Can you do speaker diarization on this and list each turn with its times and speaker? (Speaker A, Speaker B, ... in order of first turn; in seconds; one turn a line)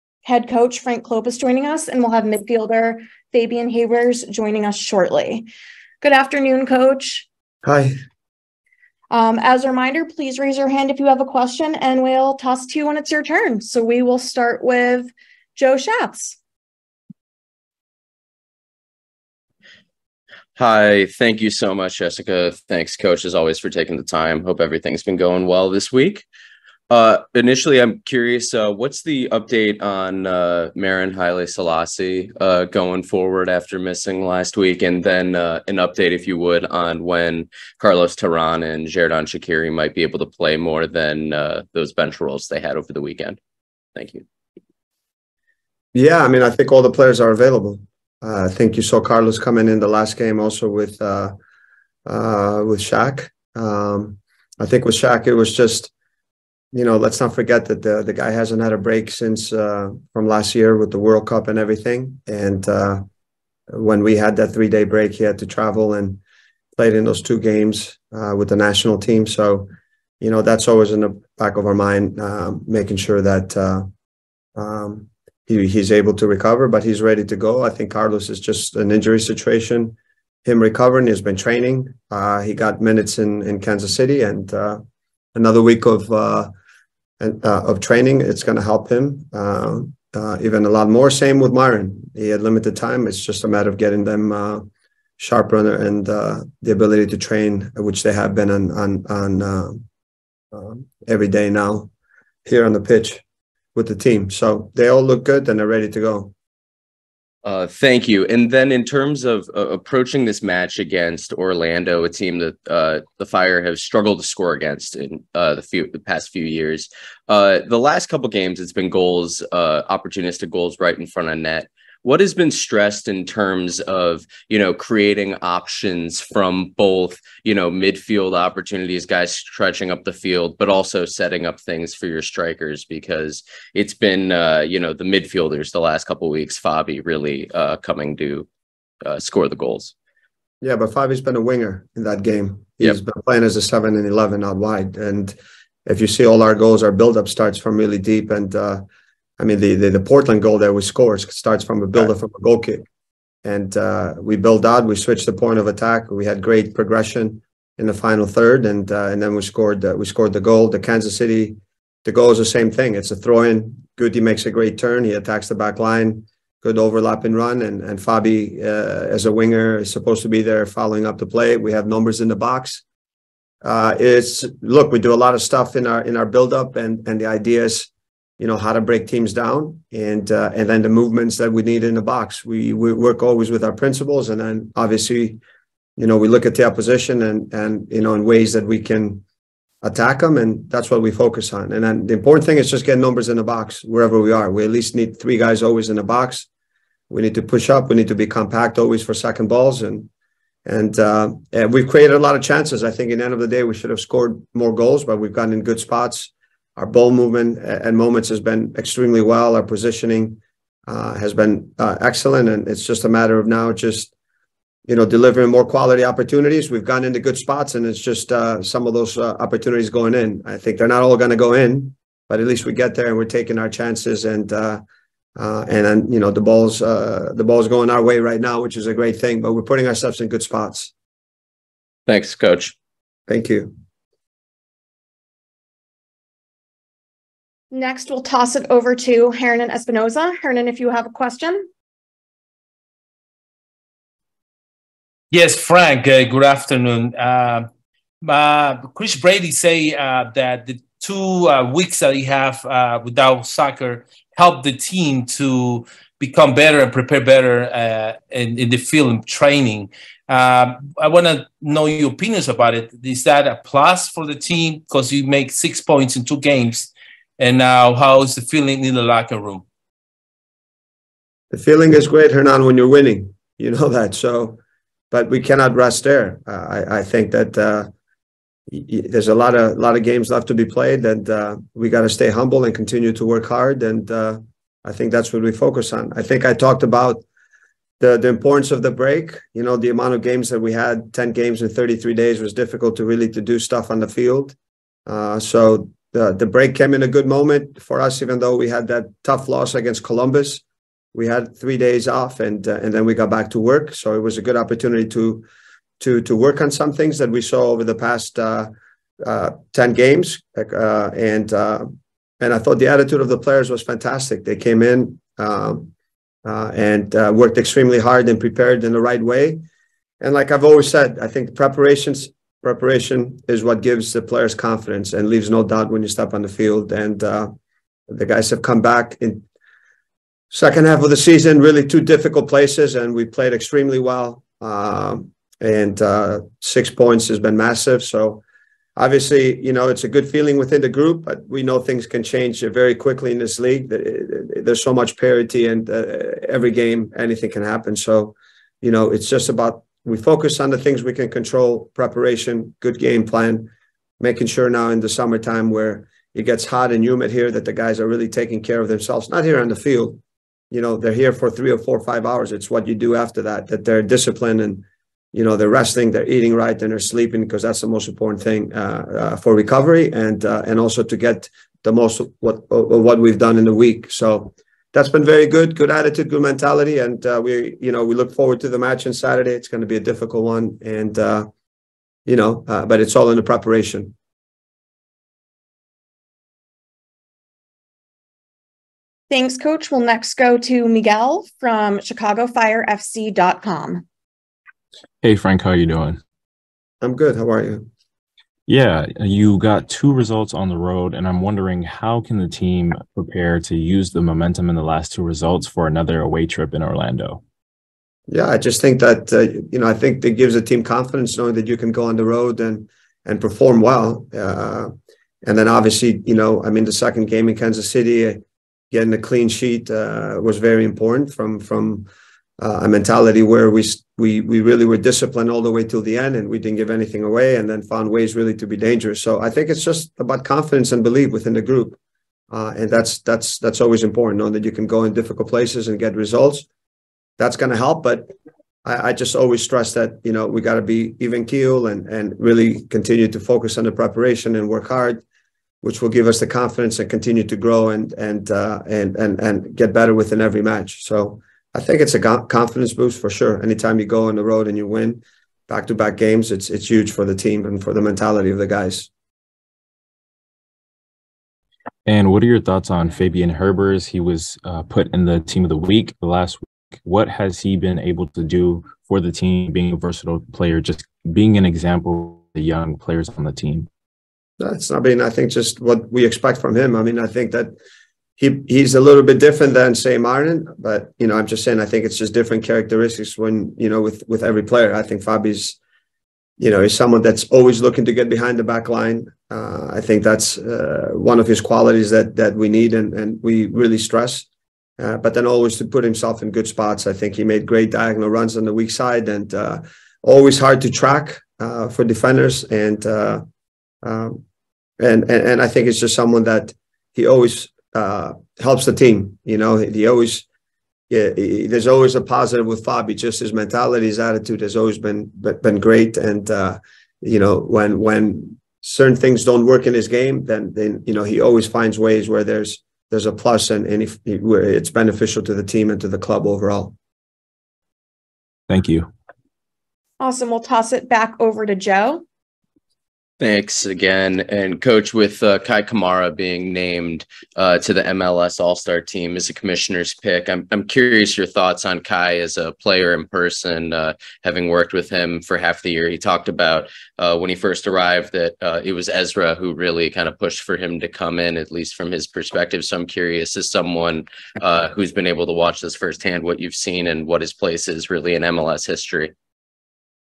Speaker A: 0.2-5.5
Speaker A: 6.0-7.2
Speaker B: 7.6-7.9
Speaker A: 9.1-16.4
Speaker C: 20.6-26.2
Speaker C: 26.9-43.4
Speaker C: 43.9-44.2
Speaker B: 45.9-51.4
Speaker B: 52.0-55.9
Speaker B: 56.7-63.1
Speaker B: 63.7-66.2
Speaker B: 66.8-69.7
Speaker B: 70.2-73.9
Speaker B: 74.5-84.8
Speaker B: 85.3-86.5
Speaker B: 87.2-94.7
Speaker B: 95.2-99.8
Speaker B: 100.5-101.9
Speaker B: 102.4-103.2
Speaker B: 103.8-106.3
Speaker C: 107.4-138.5
Speaker C: 139.0-139.9
Speaker B: 140.6-148.8
Speaker B: 149.4-152.9
Speaker B: 153.4-172.8
Speaker B: 173.6-185.4
Speaker B: 186.0-189.2
Speaker B: 189.8-196.5
Speaker B: 197.1-200.1
Speaker B: 200.6-214.1
Speaker B: 214.9-224.8
Speaker B: 225.4-230.9
Speaker C: 232.1-232.8
Speaker B: 233.3-233.7
Speaker A: 237.7-241.7
Speaker D: 245.3-247.7
Speaker D: 248.2-269.6
Speaker B: 271.5-277.9
Speaker B: 278.7-287.2
Speaker B: 288.0-300.6
Speaker B: 301.1-305.4
Speaker B: 306.0-315.9
Speaker B: 316.4-319.6
Speaker B: 320.2-327.5
Speaker B: 328.1-329.4
Speaker B: 330.5-338.4
Speaker B: 339.0-381.5
Speaker B: 382.2-384.1
Speaker A: 389.3-394.0
Speaker E: 395.2-396.2
Speaker B: 397.0-397.9
Speaker E: 398.7-407.4
Speaker B: 408.3-432.0
Speaker B: 432.5-436.7
Speaker B: 437.4-438.3
Speaker B: 438.9-445.2
Speaker B: 445.8-459.1
Speaker E: 462.1-473.9
Speaker B: 474.6-477.8
Speaker B: 478.4-485.8
Speaker B: 486.6-494.5
Speaker B: 495.0-503.4
Speaker B: 504.0-504.4
Speaker B: 505.0-510.4
Speaker B: 511.1-527.0
Speaker E: 528.7-529.1
Speaker A: 530.2-532.2
Speaker C: 533.4-559.3